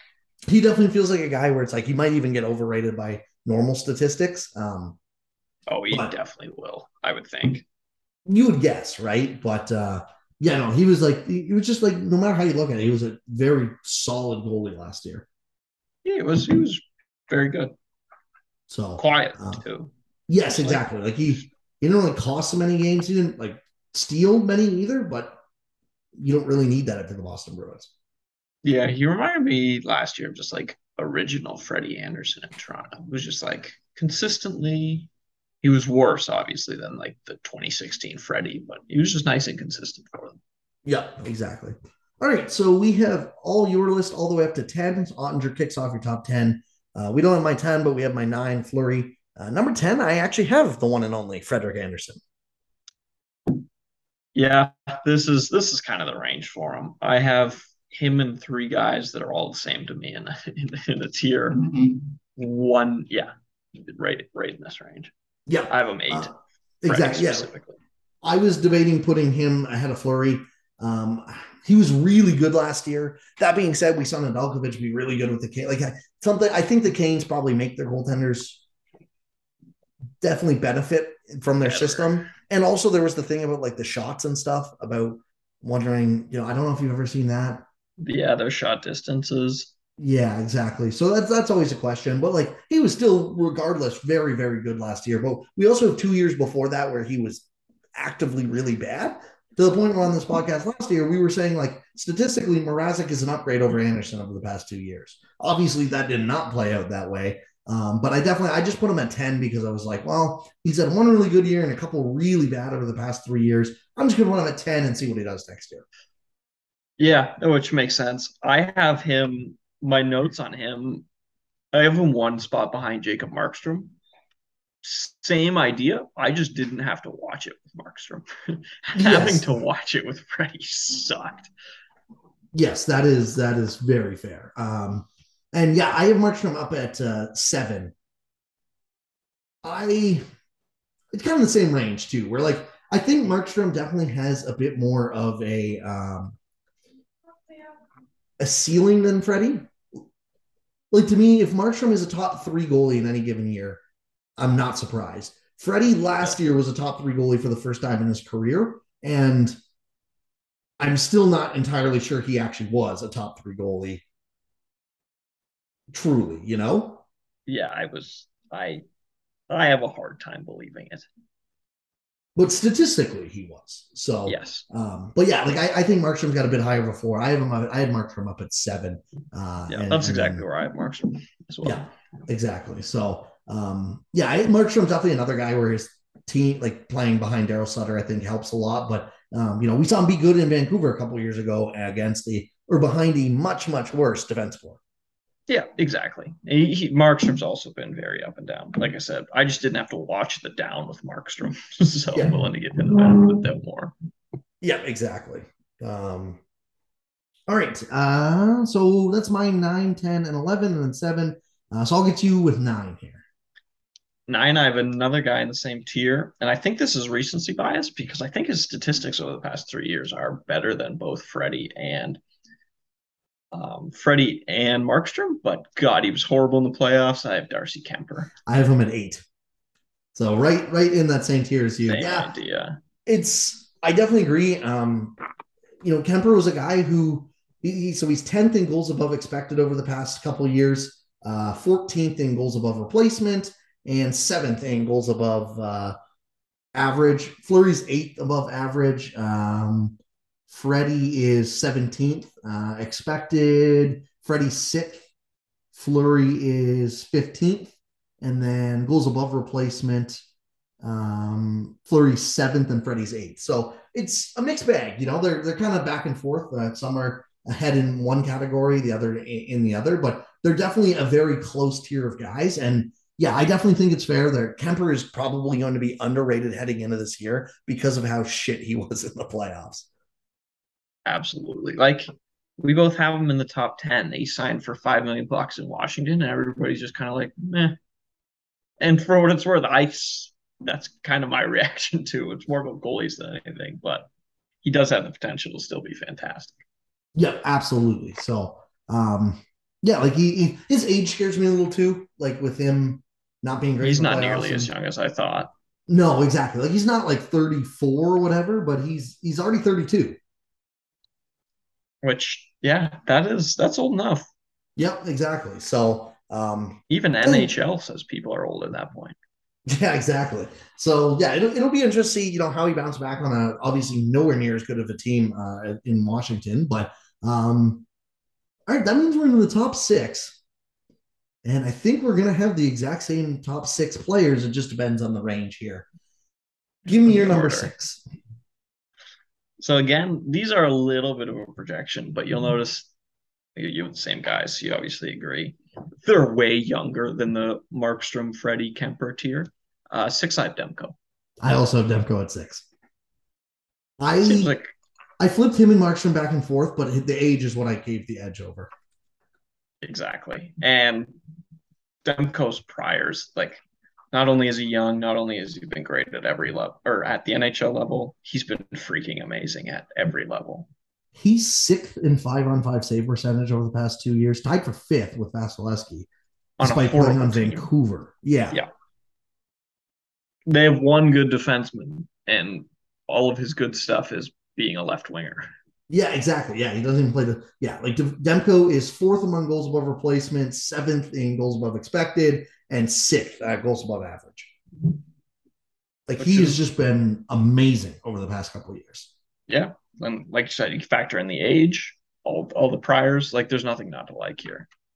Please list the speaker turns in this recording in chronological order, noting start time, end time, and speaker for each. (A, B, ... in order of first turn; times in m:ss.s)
0:00.5-0:05.0 A
0:05.7-0:07.6 B
0:08.3-0:15.3 A
0:16.0-0:17.7 B
0:18.7-0:19.6 A
0:19.0-0:19.9 B
0:20.3-0:25.4 A
0:20.6-0:20.8 B
0:26.2-0:27.9 A
0:28.6-0:35.1 B
0:35.6-0:40.4 B
0:40.8-0:52.2 A
0:54.4-1:05.1 B
1:05.5-1:07.5 A
1:05.7-1:06.3 B
1:06.9-1:07.8 B
1:08.2-1:18.6 A
1:20.2-1:27.6 A
1:21.6-1:22.3 B
1:28.0-1:29.7 B
1:30.0-1:55.8 A
1:57.0-2:01.1 B
2:01.7-2:04.0 B
2:04.8-2:11.5 B
2:09.0-2:09.6 A
2:12.5-2:17.9 A
2:19.6-2:20.2 A
2:21.1-2:26.4 A
2:28.4-2:29.7 A
2:30.9-2:33.8 A
2:34.4-2:39.6 A
2:40.8-2:44.0 A
2:45.9-2:47.0 A
2:47.5-2:48.8 B
2:49.5-2:51.1 B
2:52.4-3:00.4 A
2:54.3-2:54.7 B
2:59.7-3:01.9 B
3:01.6-3:14.8 A
3:15.5-3:23.9 B
3:22.1-3:22.4 A
3:24.6-3:26.4 A
3:27.5-3:33.2 A
3:34.3-3:42.2 B
3:43.5-3:48.3 B
3:48.5-3:49.2 A
3:50.2-3:52.3 A
3:51.9-3:52.8 B
3:53.1-3:55.2 A
3:55.8-4:06.0 A
4:06.8-4:10.0 A
4:10.5-4:15.1 A
4:15.7-4:20.2 A
4:20.8-4:39.9 A
4:41.1-4:47.8 B
4:48.8-4:54.1 B
4:54.6-4:56.6 B
4:57.2-5:04.7 A
5:03.8-5:05.5 B
5:05.9-5:10.2 A
5:12.0-5:14.2 B
5:14.8-5:17.5 A
5:16.9-5:19.2 B
5:19.7-5:27.9 A
5:28.7-5:30.4 A
5:31.4-5:35.9 A
5:36.9-5:38.0 A
5:37.0-5:37.7 B
5:39.6-5:42.9 B
5:43.6-5:51.0 B
5:51.4-5:52.7 A
5:54.0-5:54.5 A
5:54.2-5:54.7 B
5:55.2-5:58.7 A
5:59.8-6:01.1 B
6:02.0-6:03.6 B
6:04.1-6:10.7 B
6:11.2-6:16.1 A
6:16.6-6:17.7 B
6:16.6-6:18.6 A
6:20.5-6:25.5 B
6:25.9-6:34.5 A
6:36.1-6:39.1 A
6:36.2-6:36.6 B
6:39.5-6:44.7 B